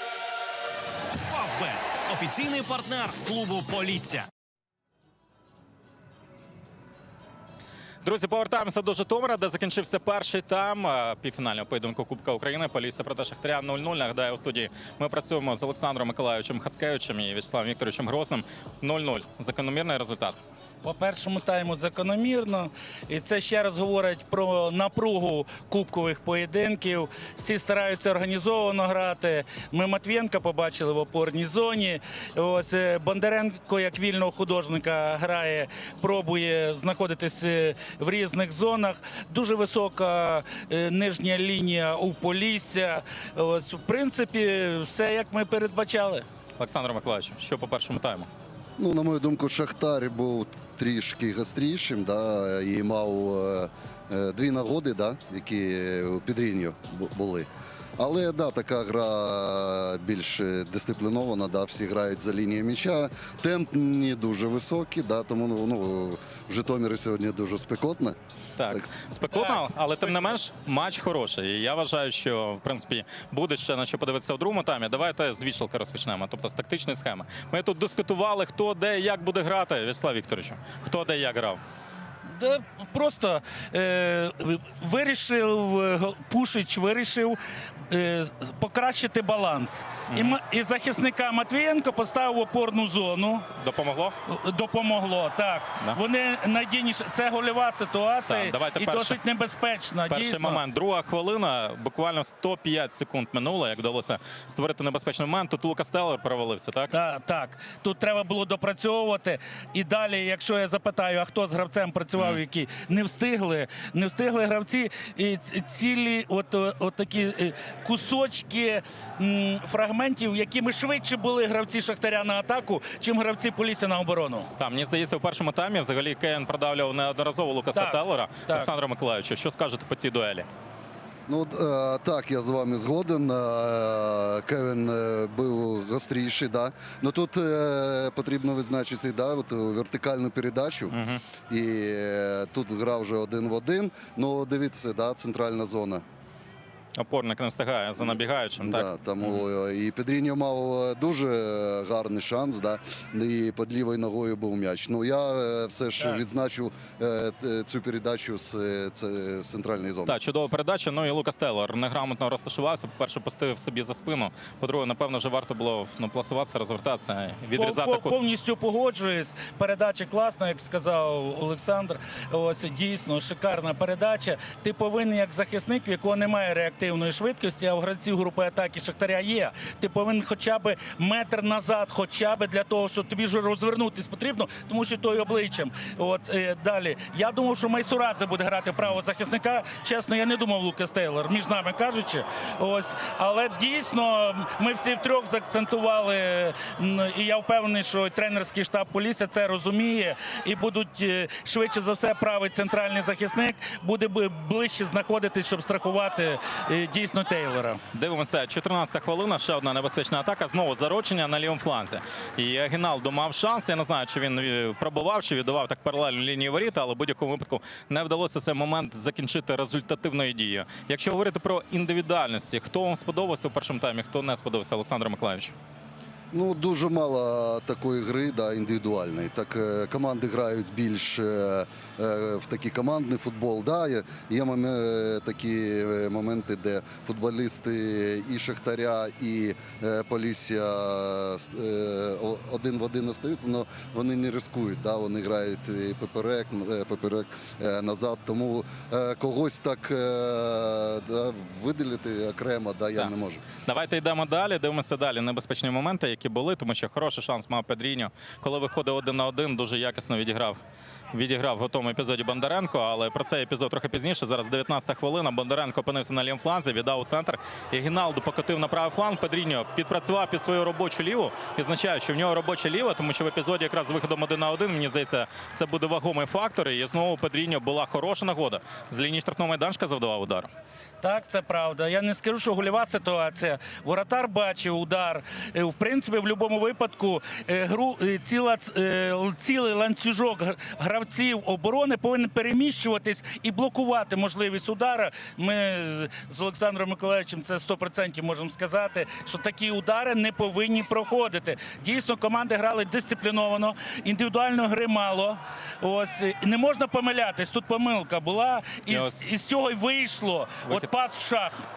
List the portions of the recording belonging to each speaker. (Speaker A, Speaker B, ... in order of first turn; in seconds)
Speaker A: 1.1-4.3
Speaker B: 8.0-20.4, 46.6-48.3, 68.6-81.6, 90.1-90.4, 93.6-94.2, 98.3-99.2, 100.1-106.9, 124.6-130.5, 140.9-141.2, 147.0-149.4, 160.1-168.2, 207.9-225.5, 253.6-260.6, 261.1-280.5, 308.9-309.2
Speaker C: 20.8-46.2, 69.3-70.4, 82.3-93.5, 94.3-100.6, 106.9-124.5, 127.7-128.7, 167.6-207.8, 281.0-311.6
Speaker D: 48.8-68.2, 131.3-141.0, 141.5-146.0, 148.0-160.2, 226.3-253.4